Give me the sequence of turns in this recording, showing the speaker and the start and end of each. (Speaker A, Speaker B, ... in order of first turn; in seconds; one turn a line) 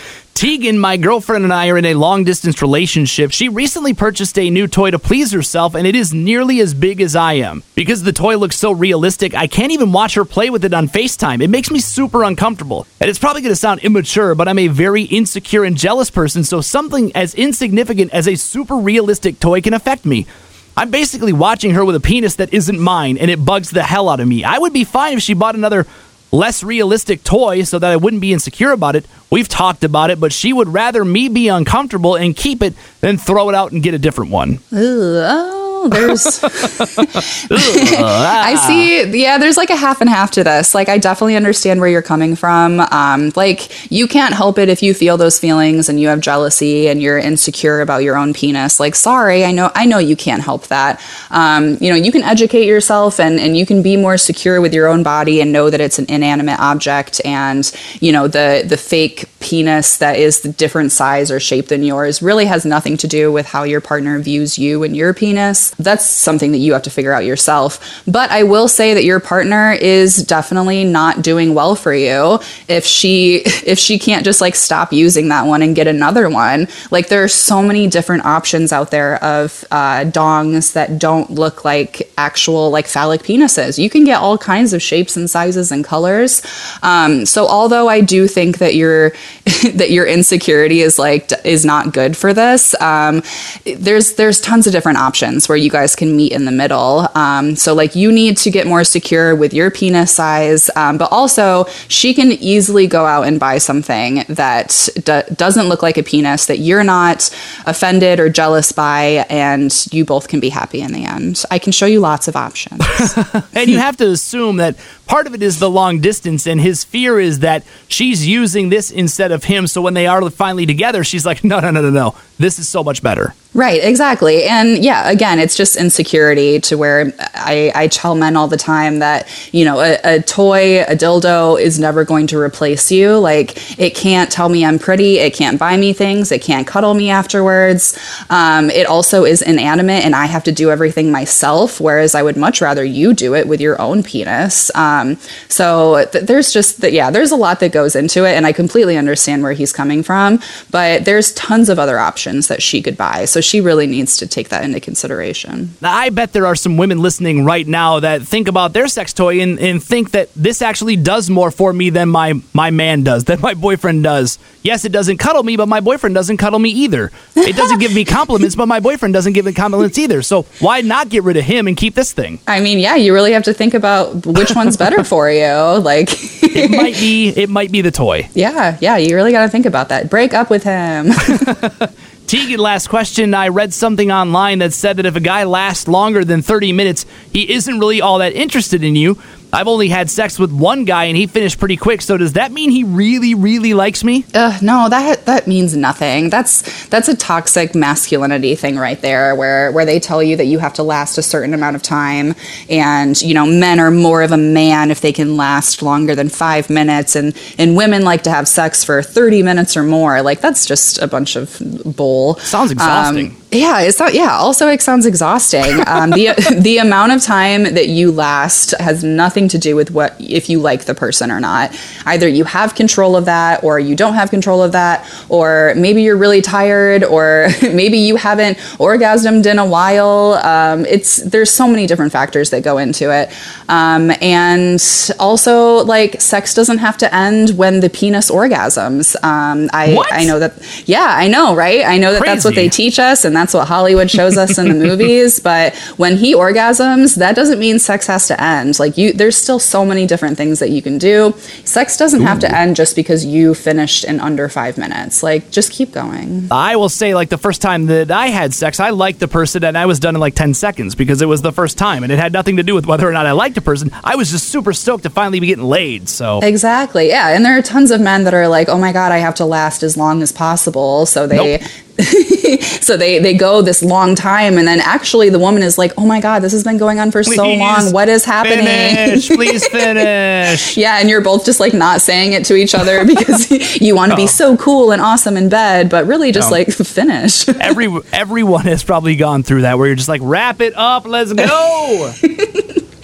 Speaker A: 0.3-34.6
Speaker B: 34.7-113.1
Speaker A: 36.1-38.9
Speaker A: 113.5-123.3
Speaker B: 123.5-155.7
Speaker A: 155.8-172.4
Speaker B: 172.5-177.0
Speaker A: 176.5-178.3
Speaker B: 178.3-181.6
Speaker A: 181.3-194.2
Speaker B: 194.3-256.5
Speaker A: 212.4-213.3
Speaker A: 239.8-240.3
Speaker A: 242.1-242.7
Speaker A: 256.5-266.4
Speaker B: 266.4-280.1
Speaker A: 271.3-271.6
Speaker A: 277.2-280.8
Speaker B: 280.6-287.8
Speaker A: 284.1-284.3
Speaker A: 287.6-292.1
Speaker B: 292.2-292.8